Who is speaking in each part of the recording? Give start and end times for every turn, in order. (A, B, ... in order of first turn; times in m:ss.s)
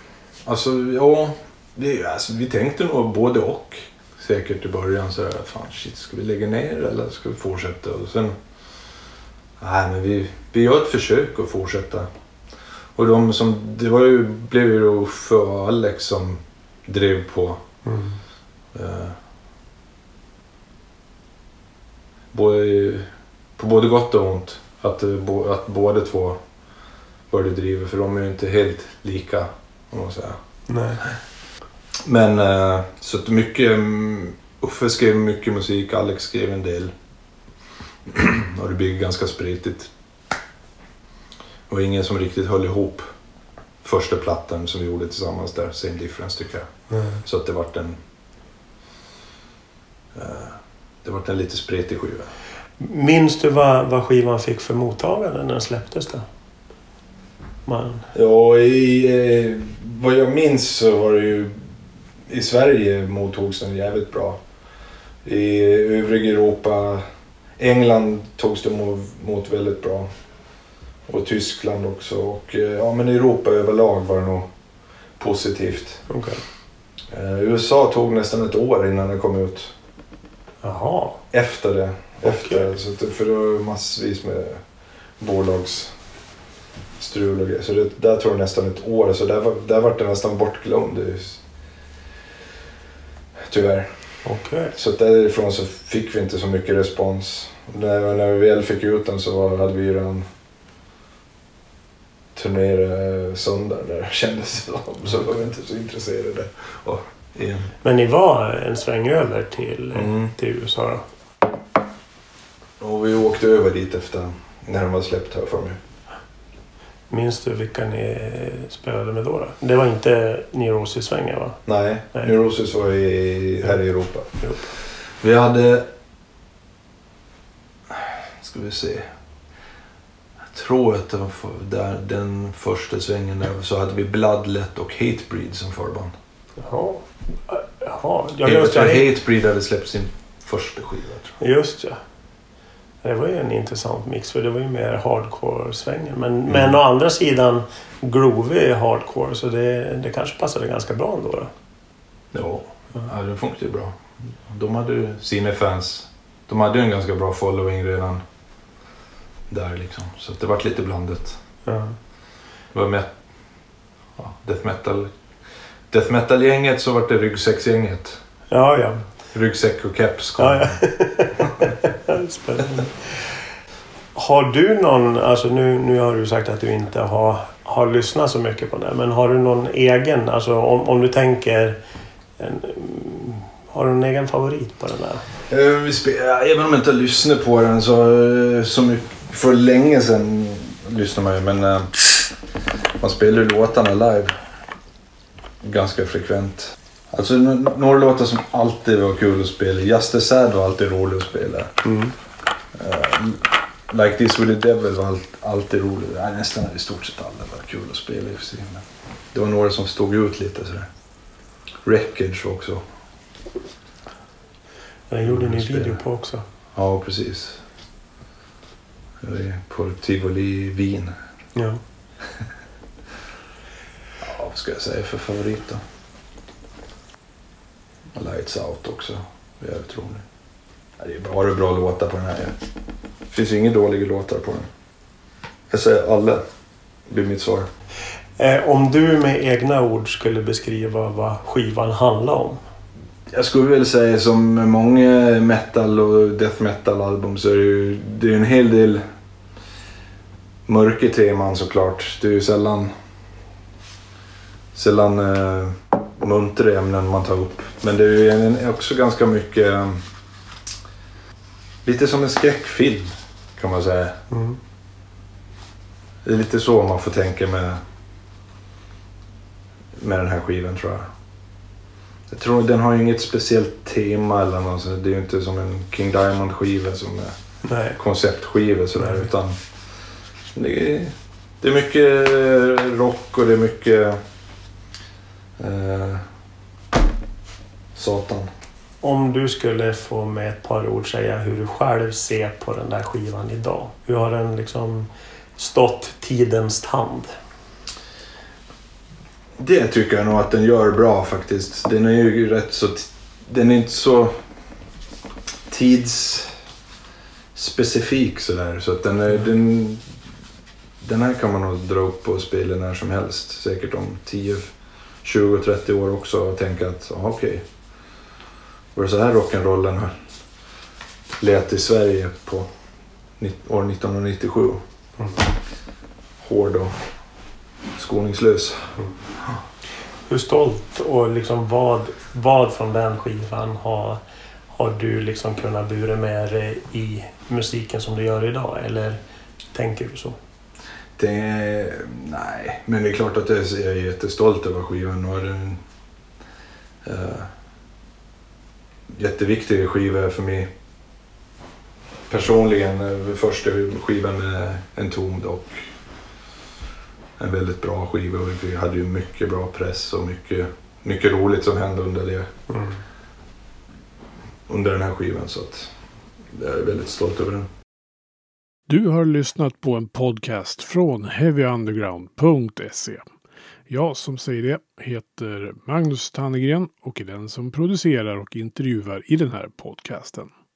0:00.4-0:08.4 A
0:09.6-0:12.1 A
0:12.9-0:17.6 A
0:17.8-0:18.2 B
0:18.7-0:19.2 A
0:22.3-0:26.4 A
0:27.3-0:31.1 A
0:30.7-0:31.0 B
0:32.0-0:36.9 A
0:38.1-0:39.9 A
0:41.7-0:43.1 A
0:43.8-0:48.0 A
0:46.9-0:47.2 B
0:50.1-0:52.3 A
0:52.8-0:56.2 B
0:57.6-0:58.1 B
0:58.1-1:01.6 A
1:02.3-1:04.4 A
1:05.2-1:07.0 A
1:07.6-1:10.1 A
1:11.1-1:14.5 A
1:15.2-1:16.0 A
1:16.1-1:16.4 B
1:17.1-1:19.7 A
1:20.6-1:21.2 B
1:21.3-1:24.6 A
1:22.2-1:22.7 B
1:25.2-1:25.9 A
1:27.0-1:31.4 A
1:33.4-1:40.3 A
1:34.2-1:34.7 B
1:42.3-1:47.7 A
1:47.8-1:51.0 B
1:49.9-1:50.3 A
1:52.8-1:55.8 A
1:57.1-2:01.6 B
2:01.6-2:05.9 A
2:04.4-2:04.7 B
2:07.9-2:09.1 A
2:10.4-2:16.1 A
2:16.6-2:19.1 B
2:18.4-2:21.4 A
2:21.4-2:22.0 B
2:23.0-2:31.5 B
2:26.5-2:26.8 A
2:32.3-2:38.2 A
2:39.5-2:41.4 A
2:41.6-2:42.0 B
2:42.7-2:45.1 A
2:45.9-2:48.2 A
2:48.5-2:49.0 B
2:49.3-2:50.9 A
2:50.4-2:53.4 B
2:54.1-3:01.8 B
3:02.4-3:05.2 B
3:05.5-3:12.3 A
3:13.0-3:14.3 A
3:15.6-3:21.7 A
3:21.8-3:22.1 B
3:22.7-3:30.9 A
3:31.8-3:32.9 A
3:35.1-3:36.4 B
3:35.2-3:36.2 A
3:36.7-3:37.6 A
3:39.2-3:41.2 A
3:41.5-3:41.8 B
3:44.2-3:45.8 A
3:48.1-3:50.2 A
3:51.0-3:52.6 A
3:53.3-3:54.7 A
3:55.7-3:56.4 A
3:57.1-3:57.7 A
3:58.4-4:02.6 B
4:03.3-4:09.0 A
4:10.7-4:12.9 A
4:14.7-4:20.0 A
4:21.8-4:24.2 A
4:24.3-4:24.6 B
4:26.2-4:27.8 A
4:30.0-4:31.1 A
4:32.3-4:37.3 A
4:37.6-4:38.0 B
4:38.0-4:39.6 A
4:39.0-4:39.3 B
4:40.5-4:44.2 A
4:45.6-4:46.2 A
4:47.9-4:48.5 A
4:49.0-4:57.3 B
4:59.6-5:04.4 A
5:05.7-5:06.5 A
5:07.5-5:10.0 A
5:11.0-5:17.6 A
5:18.9-5:20.2 A
5:21.4-5:22.7 A
5:23.4-5:24.8 A
5:25.2-5:25.4 B
5:26.4-5:27.0 A
5:27.9-5:29.6 A
5:30.3-5:39.2 B
5:39.7-5:40.4 B
5:41.2-5:45.8 A
5:47.0-5:47.5 A
5:49.1-5:50.7 A
5:52.3-5:55.8 A
5:57.4-6:02.5 A
6:02.7-6:03.0 B
6:04.7-6:05.9 A
6:06.5-6:07.7 A
6:08.9-6:13.2 C
6:13.9-6:20.5 C